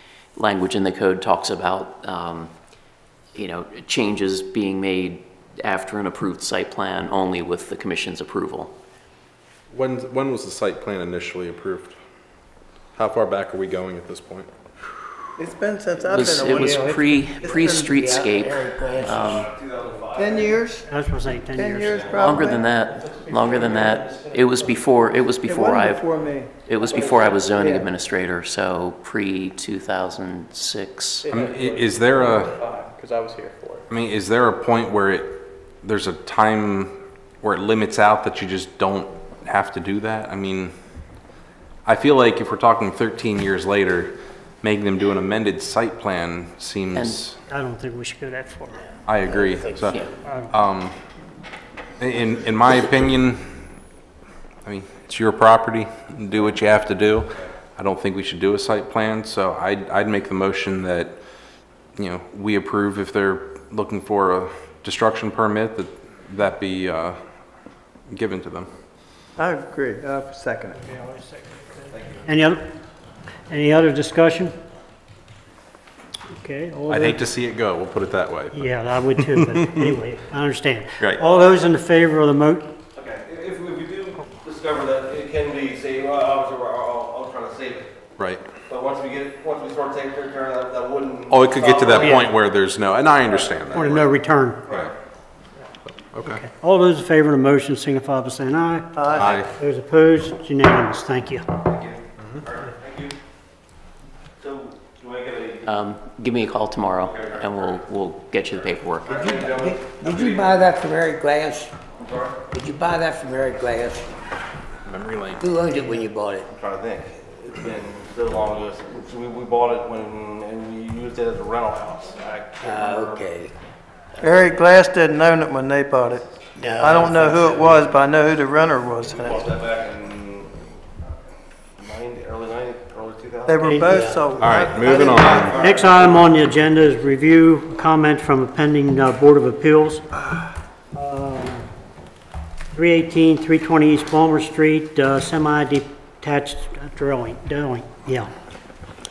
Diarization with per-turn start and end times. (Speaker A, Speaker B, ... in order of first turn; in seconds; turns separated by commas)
Speaker A: 0.3-2.5, Speaker A: 3.3-8.8, Speaker B: 9.7-12.0, Speaker B: 12.9-14.5, Speaker C: 15.3-18.0, Speaker A: 16.1-19.5, Speaker D: 16.4-19.5, Speaker E: 19.1-20.6, Speaker C: 20.1-20.9, Speaker F: 20.9-22.1, Speaker C: 21.5-22.6, Speaker E: 21.8-22.3, Speaker A: 22.2-26.1, Speaker F: 23.2-24.5, Speaker C: 25.4-26.5, Speaker A: 26.6-31.3, Speaker E: 27.0-27.3, Speaker C: 27.5-27.8, Speaker B: 31.3-32.6, Speaker E: 31.3-31.9, Speaker E: 32.6-33.8, Speaker B: 33.9-40.7, Speaker B: 41.9-47.4, Speaker A: 46.9-47.2, Speaker F: 47.5-48.8, Speaker B: 49.0-51.0, Speaker D: 49.2-49.9, Speaker F: 50.2-50.5, Speaker B: 52.0-53.7, Speaker B: 54.6-61.2, Speaker B: 62.0-67.2, Speaker B: 68.1-68.7, Speaker C: 69.4-70.8, Speaker F: 70.8-72.6, Speaker E: 71.9-72.3, Speaker F: 73.5-74.5, Speaker F: 76.3-77.2, Speaker B: 76.9-79.9, Speaker F: 78.5-82.7, Speaker E: 83.0-87.9, Speaker B: 88.2-88.4, Speaker E: 88.7-92.3, Speaker B: 91.3-94.1, Speaker F: 92.0-92.2, Speaker F: 93.7-94.6, Speaker E: 94.7-94.9, Speaker B: 95.9-96.4, Speaker F: 96.2-101.4, Speaker C: 98.9-99.3, Speaker B: 99.1-99.5, Speaker E: 101.6-103.1, Speaker E: 104.4-105.6, Speaker A: 105.6-109.3, Speaker E: 107.1-107.5, Speaker E: 109.0-110.7, Speaker D: 109.1-111.7, Speaker E: 112.0-112.4, Speaker D: 112.5-114.1, Speaker B: 114.8-115.4, Speaker D: 115.4-116.5, Speaker E: 116.5-123.2, Speaker D: 122.6-123.5, Speaker C: 124.2-126.2, Speaker D: 126.6-127.8, Speaker C: 126.8-129.5, Speaker E: 129.2-130.6, Speaker E: 131.8-133.8, Speaker C: 133.4-135.8, Speaker F: 133.6-134.0, Speaker D: 133.8-134.3, Speaker B: 134.4-136.2, Speaker E: 135.3-136.3, Speaker F: 135.5-140.2, Speaker F: 140.9-141.7, Speaker F: 142.7-148.3